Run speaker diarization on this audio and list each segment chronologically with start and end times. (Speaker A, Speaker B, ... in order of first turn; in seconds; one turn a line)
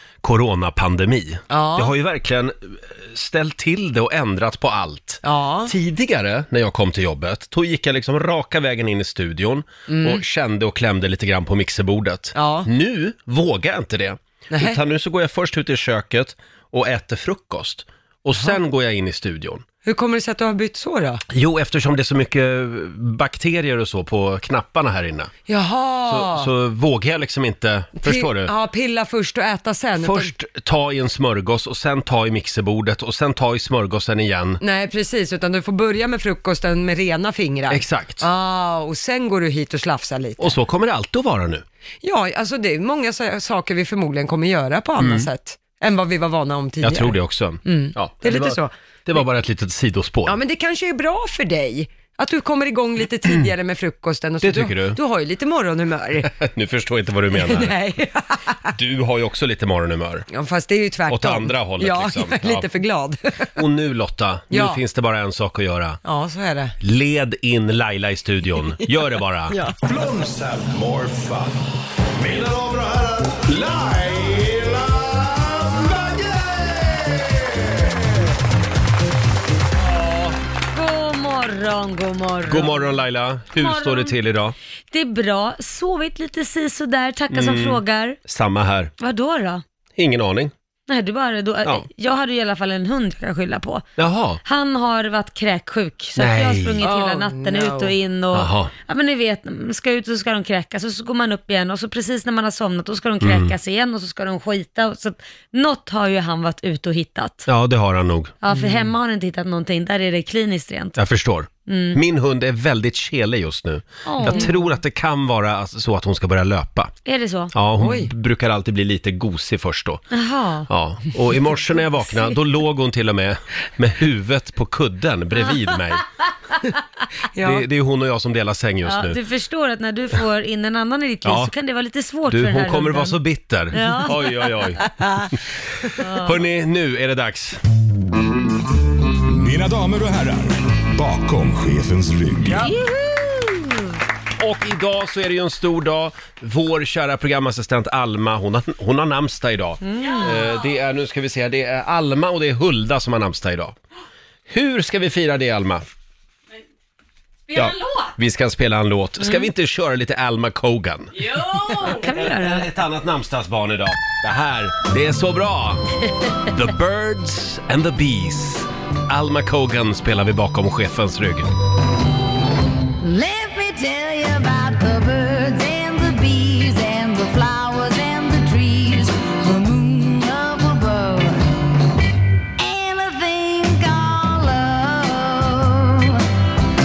Speaker A: 0.2-19.6
Speaker B: 1.5-1.9
Speaker B: 5.2-5.7
Speaker B: 9.9-10.2
Speaker B: 12.3-12.7
Speaker B: 14.5-14.8
Speaker B: 19.8-21.2
Speaker A: 21.3-25.3
Speaker B: 25.5-26.5
Speaker A: 26.1-28.5
Speaker B: 28.0-30.3
Speaker A: 30.0-34.6
Speaker B: 34.6-40.6
Speaker A: 37.7-38.3
Speaker A: 40.4-41.6
Speaker B: 42.0-48.7
Speaker A: 45.0-45.3
Speaker A: 46.8-50.4
Speaker B: 50.2-56.3
Speaker A: 54.4-55.0
Speaker A: 56.3-57.7
Speaker B: 57.3-58.6
Speaker A: 58.7-60.3
Speaker B: 60.3-63.5
Speaker A: 61.1-62.7
Speaker A: 63.5-66.0
Speaker B: 64.5-64.8
Speaker B: 66.0-66.8
Speaker A: 66.8-69.6
Speaker C: 69.8-71.6
Speaker C: 72.2-78.2
Speaker D: 80.7-82.9
Speaker A: 82.5-84.5
Speaker D: 83.5-84.2
Speaker D: 84.9-88.2
Speaker A: 87.3-88.9
Speaker D: 89.0-89.6
Speaker A: 90.0-90.5
Speaker D: 90.9-93.9
Speaker A: 94.0-94.4
Speaker D: 94.4-107.5
Speaker A: 96.2-96.9
Speaker B: 96.8-97.9
Speaker A: 98.3-98.7
Speaker A: 103.2-103.5
Speaker A: 107.5-108.3
Speaker D: 108.4-111.0
Speaker B: 108.5-108.9
Speaker A: 111.0-116.9
Speaker D: 111.7-112.0
Speaker D: 114.1-114.6
Speaker D: 117.0-117.5
Speaker A: 117.5-120.0
Speaker B: 117.8-118.1
Speaker D: 120.1-120.7
Speaker A: 120.7-126.0
Speaker B: 127.3-127.7
Speaker A: 127.4-129.2
Speaker D: 128.9-133.2
Speaker A: 131.2-131.5
Speaker A: 132.3-134.8
Speaker D: 133.7-134.4
Speaker D: 136.0-136.4
Speaker A: 136.2-137.6
Speaker C: 139.3-142.7
Speaker D: 142.7-143.5
Speaker A: 144.4-153.8
Speaker D: 149.9-150.5
Speaker A: 154.5-155.8
Speaker D: 157.5-158.1
Speaker A: 157.5-165.9
Speaker D: 159.2-159.5
Speaker D: 161.2-162.7
Speaker A: 166.5-171.5
Speaker E: 173.0-181.5
Speaker E: 182.6-186.2